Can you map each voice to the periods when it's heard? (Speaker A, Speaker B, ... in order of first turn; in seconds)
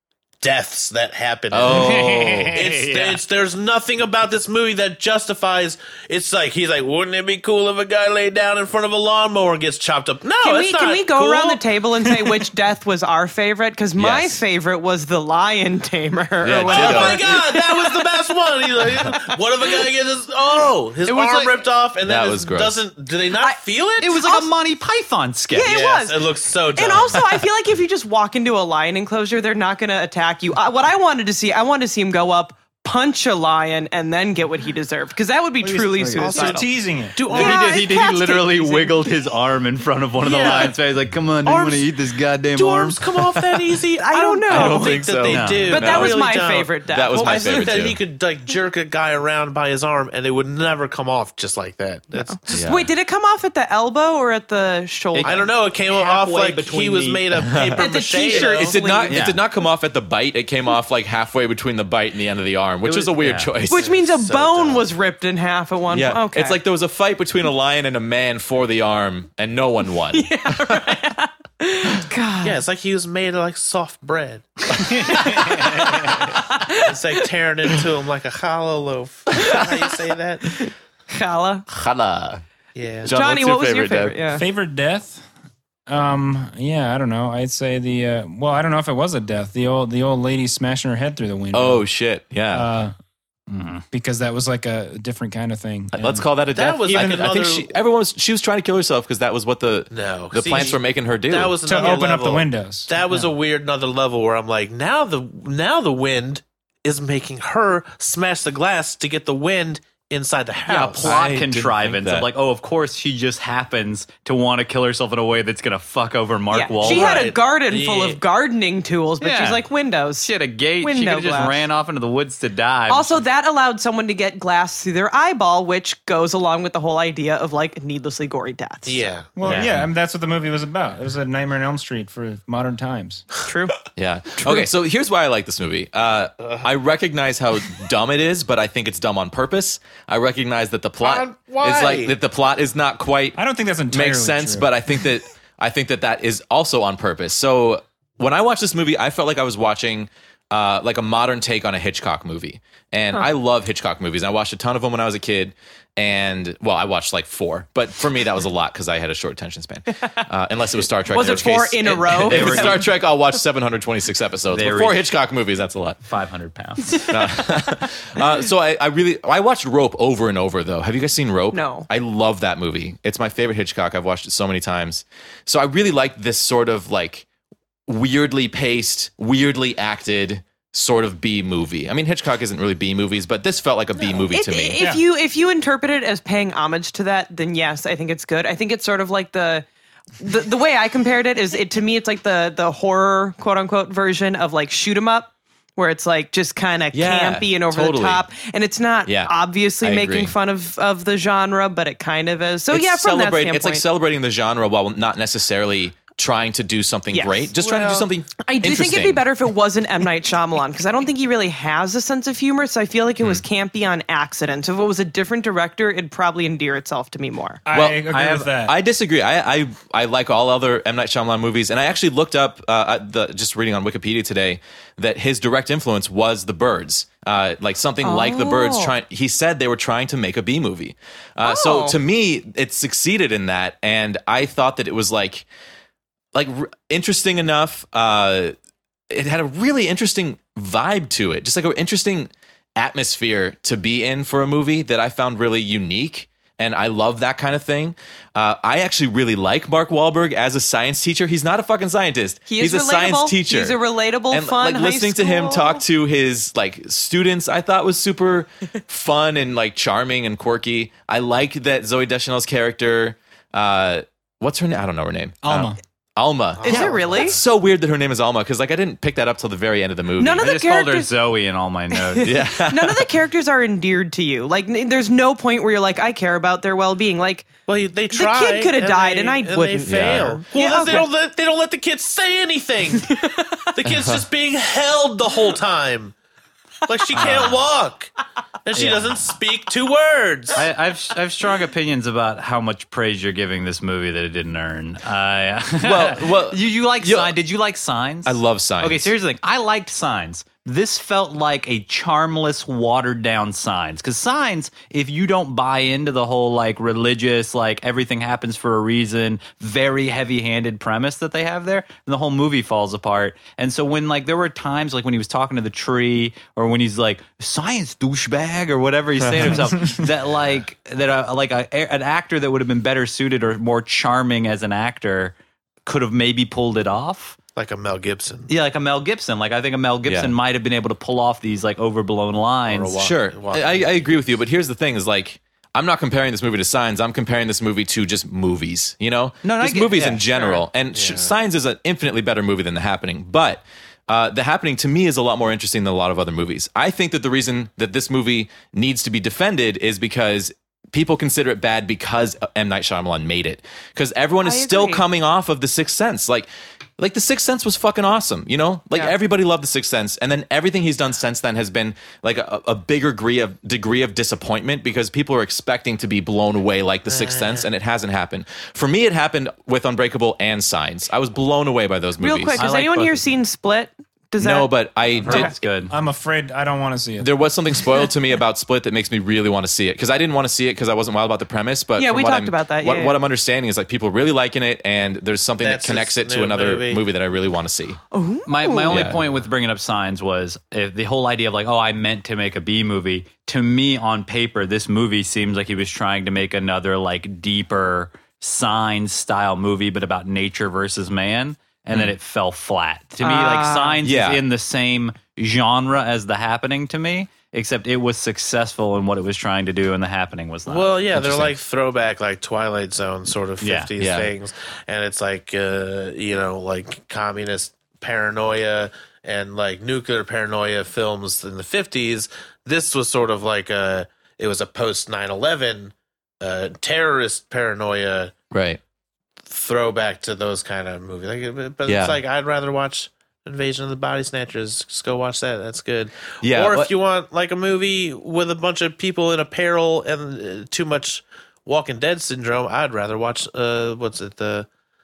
Speaker A: 0.4-1.8, 2.5-11.6, 16.6-24.2, 25.6-27.4, 36.1-37.6, 40.2-40.8, 41.4-41.9, 42.5-52.6, 55.2-58.8, 63.7-64.9, 72.4-80.5, 82.7-83.1, 96.5-97.7, 99.9-111.2, 116.8-118.2, 128.8-129.6, 136.4-136.7, 141.0-142.1, 266.5-267.4, 277.7-283.1, 283.8-286.1, 286.9-288.1, 288.6-290.6, 327.6-328.5, 332.7-333.9, 340.9-341.3, 367.1-367.7, 385.6-387.0, 410.6-428.3, 429.4-444.7
Speaker B: 1.5-2.6, 13.9-14.4, 16.4-17.2, 22.0-22.8, 44.5-46.2, 46.9-48.0, 52.5-52.9, 58.5-63.8, 65.9-71.0, 81.7-82.4, 83.0-84.2, 91.5-92.7, 95.9-101.6, 111.0-112.3, 129.5-129.8, 133.9-143.4, 143.9-166.0, 167.1-177.2, 177.9-184.8, 196.9-198.2, 199.0-200.3, 202.7-209.2, 217.7-235.5, 236.3-238.5, 239.1-253.8, 254.3-270.4, 272.2-273.1, 279.8-280.4, 283.8-284.2, 295.8-297.3, 298.2-299.1, 330.1-330.3, 333.0-372.6, 374.4-375.5, 377.2-388.0, 388.9-389.2, 404.0-404.4, 411.1-411.6, 414.0-414.3, 428.5-428.8, 431.9-432.2, 436.4-436.9
Speaker C: 1.7-3.2, 21.1-21.6, 23.4-25.8, 37.3-43.4, 45.3-45.9, 55.1-57.3, 59.1-59.4, 62.8-63.5, 74.9-75.9, 93.5-93.8, 110.7-117.2, 119.2-119.6, 120.2-123.2, 129.4-129.8, 162.3-162.9, 164.5-165.1, 166.1-167.1, 270.4-272.3, 287.1-287.6, 288.7-289.2, 290.6-325.3, 325.9-327.4, 328.5-332.9, 339.4-340.6, 372.6-373.2, 375.2-375.9, 388.5-411.0, 413.6-413.9
Speaker D: 10.4-18.1, 24.2-24.4, 25.5-36.7, 37.2-39.1, 40.2-40.7, 44.0-45.1, 45.7-48.0, 52.2-55.4, 57.8-59.2, 63.7-66.6, 70.1-72.6, 76.5-77.2, 79.4-79.6, 80.6-81.6, 83.0-84.5, 116.5-121.6, 122.9-129.0, 133.4-133.8, 161.1-162.8, 171.5-171.9, 184.3-189.6, 190.2-203.8, 207.1-217.6, 228.0-228.9, 231.4-231.9, 252.5-255.8, 266.6-267.4, 270.2-271.1, 271.9-281.1, 283.1-283.6, 354.4-355.0, 372.2-374.7, 375.3-375.6, 382.0-383.2, 388.1-389.1, 403.2-404.0
Speaker E: 35.6-37.2, 84.3-85.2, 85.9-91.8, 92.5-92.9, 93.9-96.2, 96.9-97.2, 101.6-103.3, 129.3-133.3, 143.3-144.7, 217.6-218.8, 265.4-265.7, 375.4-377.3